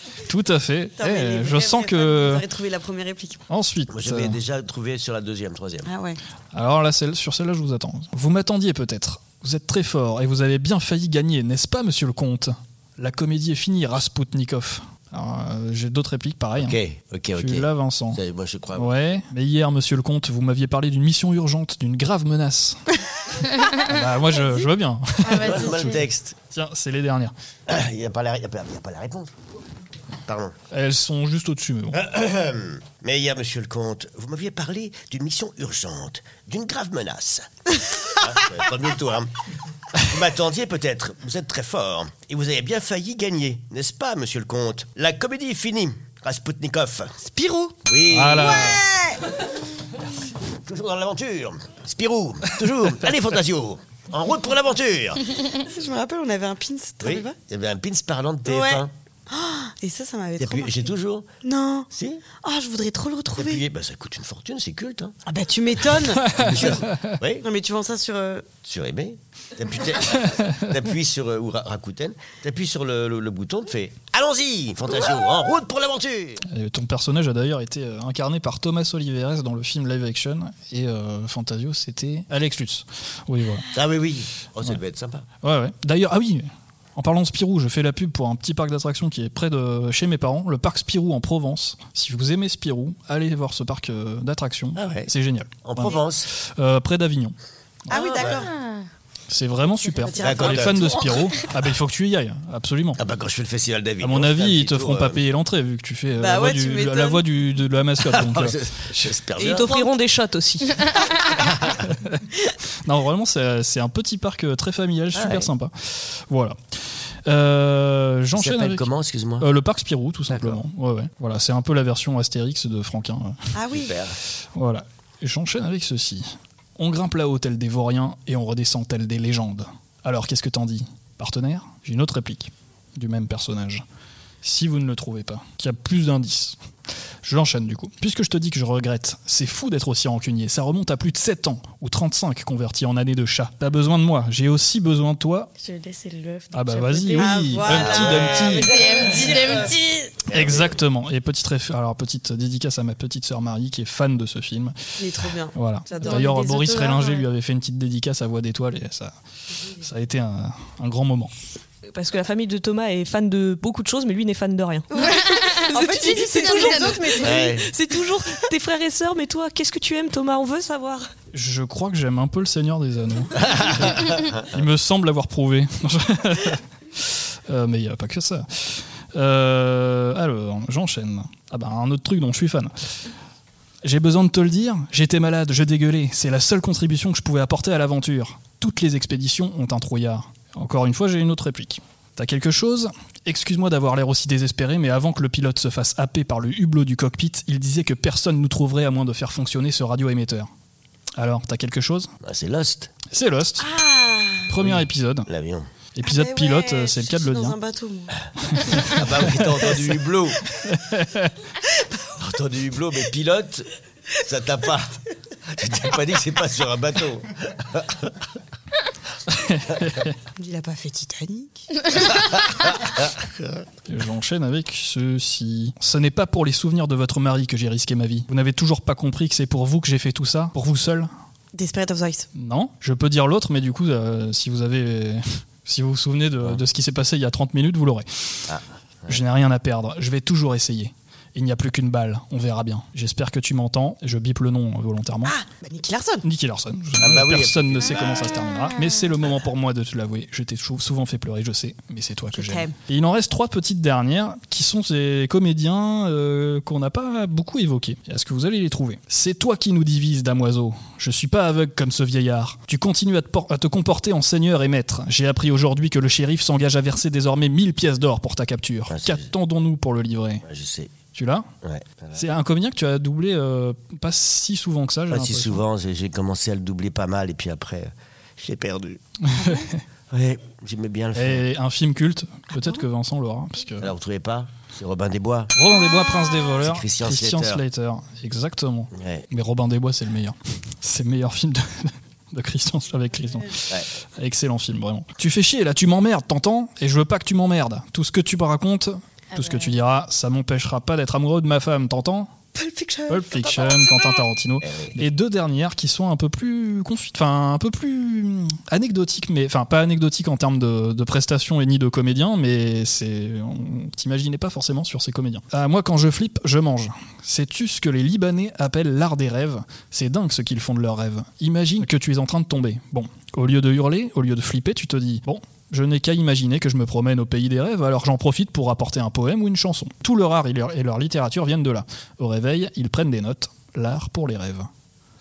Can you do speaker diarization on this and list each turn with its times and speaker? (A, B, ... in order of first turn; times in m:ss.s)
0:00.3-0:02.4 A
0:01.0-0:03.4 B
0:03.5-0:04.4 A
0:03.9-0:05.9 C
0:05.8-0:06.2 B
0:06.5-0:16.8 A
0:16.6-0:19.0 C
0:17.4-0:18.2 A
0:18.7-0:22.8 A
0:23.6-0:25.8 A
0:25.2-0:26.0 D
0:25.4-0:26.4 C
0:26.5-0:27.3 A
0:27.7-0:29.3 C
0:30.2-0:30.5 C
0:30.7-0:32.0 A
0:31.9-0:37.5 C
0:38.1-0:39.3 C
0:39.9-0:47.1 C
0:47.2-0:47.7 B
0:47.8-0:48.8 C
0:48.1-0:48.8 A
0:48.6-0:49.2 B
0:50.6-0:55.3 C
0:55.6-0:57.4 B
0:57.0-0:58.9 C
0:58.4-1:00.9 B
1:00.4-1:01.3 C
1:01.4-1:03.6 B
1:01.9-1:02.2 C
1:03.4-1:05.1 C
1:05.2-1:06.6 B
1:06.2-1:07.2 A
1:06.3-1:07.4 C
1:07.4-1:08.5 B
1:08.6-1:16.4 C
1:16.5-1:23.7 A
1:23.7-1:25.2 C
1:25.4-1:37.3 A
1:34.8-1:35.1 C
1:35.6-1:36.3 C
1:37.9-1:38.5 B
1:38.2-1:38.8 D
1:39.3-1:43.0 A
1:39.8-1:41.4 B
1:40.2-1:41.1 C
1:43.0-1:45.2 C
1:44.0-1:49.1 A
1:46.2-1:47.2 B
1:48.0-1:49.7 C
1:49.4-1:51.0 E
1:49.6-1:49.8 B
1:51.4-1:51.8 C
1:51.9-1:52.2 A
1:52.8-1:56.6 A
1:55.1-1:55.5 C
1:57.2-2:03.5 A
1:58.3-1:59.5 C
2:00.3-2:00.6 C
2:03.5-2:03.9 B
2:03.7-2:04.2 C
2:04.5-2:13.8 A
2:14.4-2:16.6 A
2:17.2-2:25.5 A
2:25.6-2:29.8 D
2:26.5-2:28.7 A
2:27.1-2:30.0 B
2:27.7-2:28.6 C
2:30.3-2:30.8 C
2:30.3-2:34.8 A
2:35.0-2:37.3 B
2:35.5-2:39.1 A
2:39.8-2:41.3 A
2:41.9-2:51.1 E
2:44.9-2:47.6 B
2:45.0-2:47.3 D
2:47.2-2:47.7 C
2:51.3-3:02.7 A
3:03.8-3:20.5 A
3:21.2-3:22.1 A
3:22.2-3:22.9 C
3:23.1-3:23.7 A
3:23.6-3:24.5 B
3:24.5-3:25.3 A
3:24.6-3:25.7 C
3:25.9-3:27.6 A
3:26.0-3:28.2 B
3:28.5-3:29.5 A
3:28.8-3:30.4 C
3:30.7-3:31.4 A
3:32.2-3:33.7 C
3:34.2-3:34.9 C
3:35.5-3:38.1 C
3:39.3-3:40.1 A
3:40.4-3:41.8 B
3:43.9-3:51.1 A
3:51.5-3:52.3 B
3:52.3-3:58.5 A
3:58.5-3:59.2 C
3:59.1-4:05.4 A
4:05.2-4:06.2 B
4:06.2-4:30.4 A
4:07.0-4:08.5 C
4:12.3-4:12.7 B
4:28.9-4:29.3 C
4:30.4-4:31.0 C
4:31.1-4:31.5 A
4:31.6-4:32.2 C
4:32.1-4:35.6 A
4:35.1-4:39.0 C
4:39.2-4:39.8 A
4:39.3-4:39.7 B
4:40.1-4:41.4 C
4:41.1-4:43.9 A
4:42.5-4:42.8 B
4:43.8-4:45.5 C
4:45.5-5:02.3 A
4:46.6-4:47.6 C
4:48.9-4:49.3 C
5:02.5-5:04.2 B
5:03.1-5:34.7 A
5:04.6-5:05.0 C